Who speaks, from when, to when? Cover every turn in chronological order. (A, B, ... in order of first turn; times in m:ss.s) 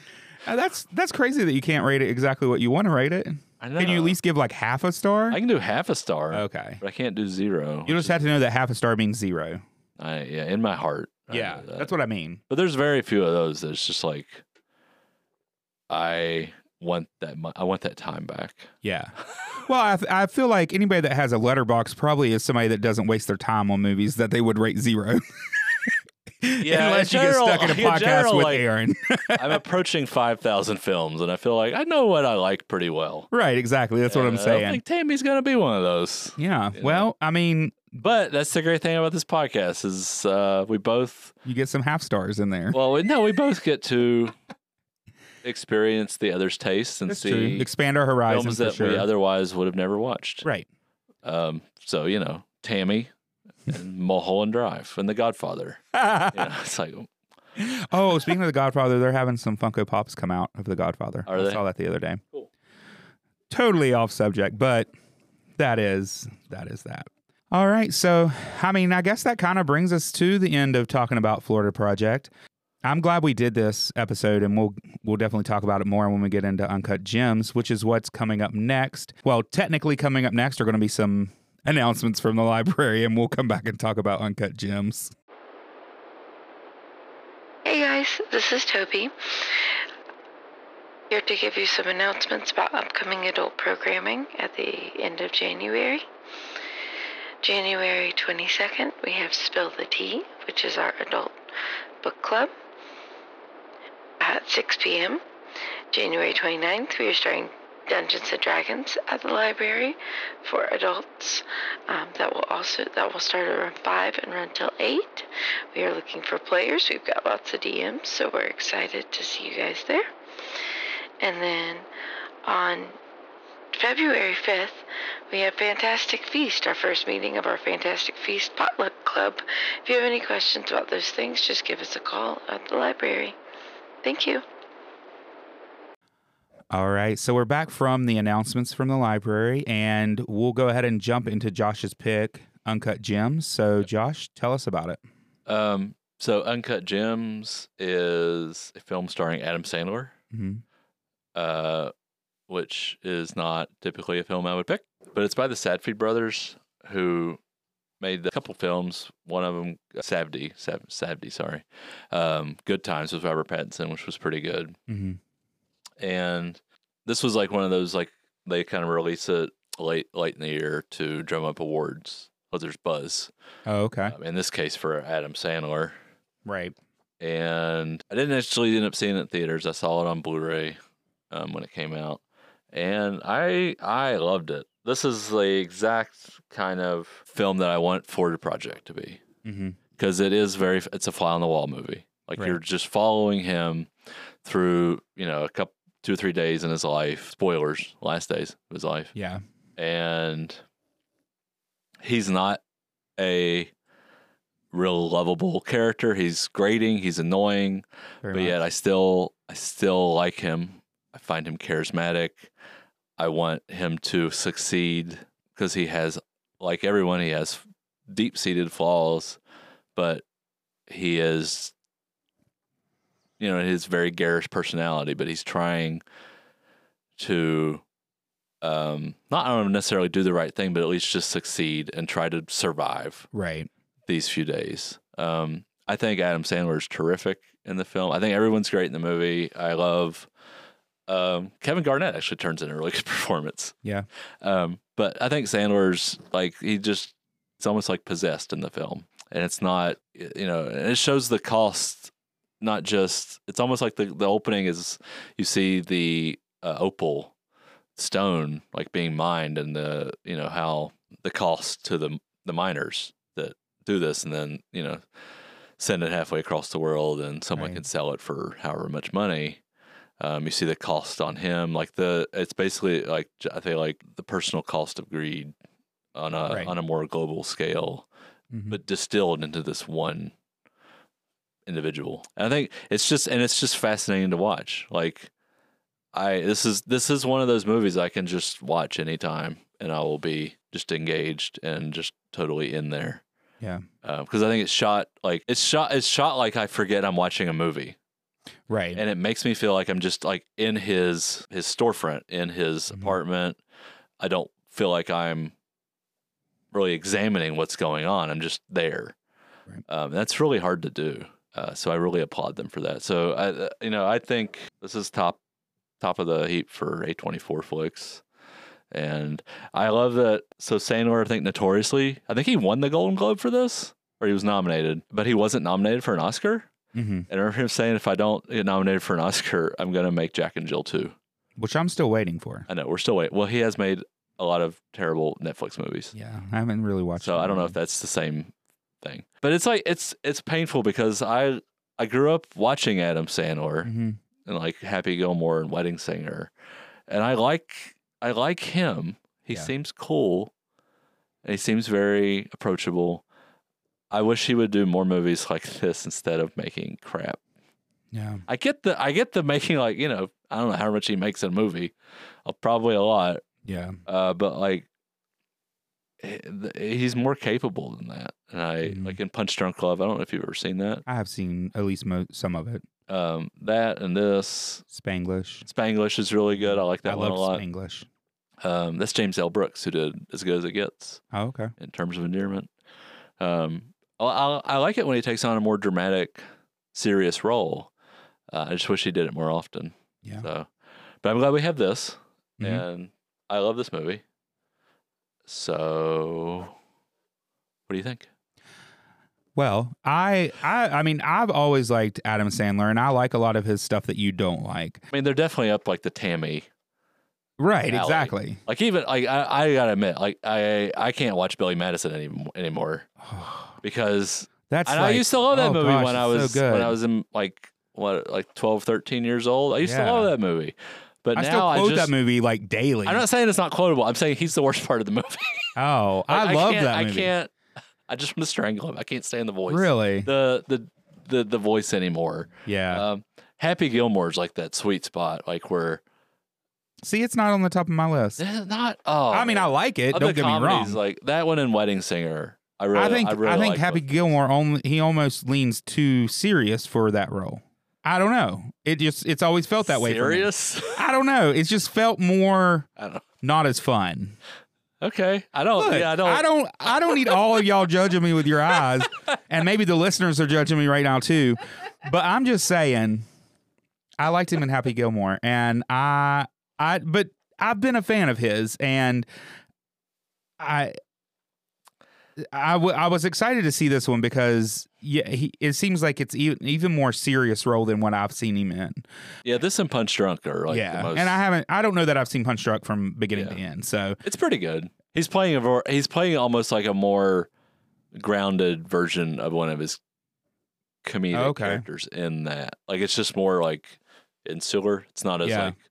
0:00.4-0:05.4 A
0:03.6-0:04.2 B
0:05.3-0:08.2 B
0:06.3-0:06.8 A
0:07.8-0:09.6 A
0:10.0-0:11.9 B
0:11.3-0:12.4 A
0:12.5-0:14.4 B
0:15.9-0:18.7 B
0:18.8-0:25.9 A
0:26.4-0:29.6 A
0:26.6-0:28.6 B
0:29.3-0:33.3 B
0:33.3-0:34.8 A
0:34.1-0:37.1 B
0:36.4-0:38.0 A
0:38.0-0:41.3 B
0:41.4-0:42.8 A
0:42.7-0:44.4 B
0:45.4-0:47.7 B
0:47.1-0:49.1 A
0:48.3-0:50.4 B
0:51.2-0:53.1 B
0:53.6-0:57.1 B
0:55.9-0:56.5 A
0:57.6-1:02.2 A
1:01.2-1:01.6 B
1:03.5-1:04.9 A
1:05.6-1:12.3 A
1:12.8-1:25.1 A
1:27.6-1:29.1 C
1:31.1-1:36.0 C
1:37.4-1:41.3 C
1:42.0-1:42.5 C
1:44.2-1:45.2 C
1:45.9-2:00.0 C
2:01.2-2:01.9 C
2:02.4-2:03.0 C
2:03.7-2:13.4 C
2:14.0-2:14.4 C
2:16.7-2:25.0 A
2:25.5-2:30.1 B
2:30.3-2:30.6 A
2:31.3-2:31.9 B
2:32.5-2:37.4 B
2:38.0-2:44.8 B
2:44.9-2:45.2 A
2:46.0-2:53.3 B
2:53.6-2:54.1 A
2:54.1-2:56.0 B
2:56.4-2:56.7 A
2:57.2-3:00.8 B
3:01.3-3:02.2 B
3:02.7-3:09.2 B
3:09.4-3:09.8 A
3:10.0-3:13.9 B
3:14.4-3:19.1 B
3:19.1-3:19.4 A
3:19.8-3:20.6 B
3:22.0-3:22.6 B
3:23.2-3:23.7 B
3:24.7-3:32.5 B
3:28.2-3:28.6 A
3:33.2-3:39.4 B
3:39.9-3:40.2 B
3:40.9-3:41.7 B
3:43.4-3:46.0 B
3:47.2-3:47.8 B
3:48.6-3:53.3 B
3:53.3-3:53.7 A
3:54.0-4:00.3 B
4:01.1-4:03.7 B
4:04.4-4:17.3 B
4:18.0-4:25.0 B
4:25.8-4:29.6 B
4:27.5-4:27.8 A
4:30.2-4:35.5 B
4:36.1-4:38.1 B
4:38.5-4:38.8 A
4:38.7-4:40.3 B
4:41.6-4:45.3 B
4:46.1-4:53.2 B
4:54.0-4:58.0 B
4:58.7-4:59.0 A
4:59.0-5:03.6 B
5:04.2-5:05.5 B
5:06.7-5:09.1 B
5:09.9-5:15.4 B
5:16.0-5:18.2 B
5:18.9-5:26.7 B
5:26.9-5:27.3 A
5:27.3-5:31.1 B
5:31.6-5:32.7 A
5:32.7-5:36.1 B
5:36.1-5:37.8 A
5:37.2-5:43.9 B
5:43.8-5:44.2 A
5:44.4-5:46.5 B
5:47.1-5:50.5 B
5:51.4-5:53.2 B
5:54.1-5:57.4 B
5:58.1-5:58.4 A
5:58.5-6:01.9 B
6:02.4-6:03.4 B
6:03.6-6:04.0 A
6:04.0-6:04.9 B
6:06.2-6:11.0 B
6:08.8-6:09.2 A
6:11.1-6:12.8 A
6:13.1-6:14.8 B
6:14.9-6:15.6 A
6:15.6-6:17.6 B
6:16.6-6:18.1 A
6:18.6-6:21.2 B
6:21.3-6:21.7 A
6:21.8-6:22.7 B
6:23.4-6:27.9 B
6:28.5-6:30.7 B
6:31.2-6:34.2 B
6:35.5-6:36.7 B
6:37.9-6:38.3 B
6:39.5-6:45.0 A
6:45.1-6:46.7 B
6:47.6-6:48.6 A
6:47.9-6:53.1 B
6:53.2-6:53.7 A
6:53.8-7:02.1 B
6:54.7-6:57.0 A
6:59.8-7:00.3 A
7:01.3-7:03.2 A
7:03.0-7:05.7 B
7:05.8-7:07.3 A
7:06.3-7:07.5 B
7:08.1-7:16.0 B
7:09.7-7:10.3 A
7:12.6-7:13.0 A
7:17.0-7:18.4 A
7:18.4-7:24.1 B
7:19.3-7:21.0 A
7:22.9-7:32.9 A
7:29.8-7:31.1 B
7:33.0-7:33.2 B
7:33.4-7:34.4 A
7:35.0-7:36.4 B
7:35.8-7:43.2 A
7:44.2-7:49.3 A
7:50.6-7:51.0 A
7:52.4-7:59.0 A
7:59.4-8:01.4 B
8:00.7-8:04.2 A
8:03.3-8:03.6 B
8:04.2-8:07.5 B
8:08.1-8:10.0 B
8:11.0-8:15.8 B
8:11.3-8:11.8 A
8:15.4-8:15.7 A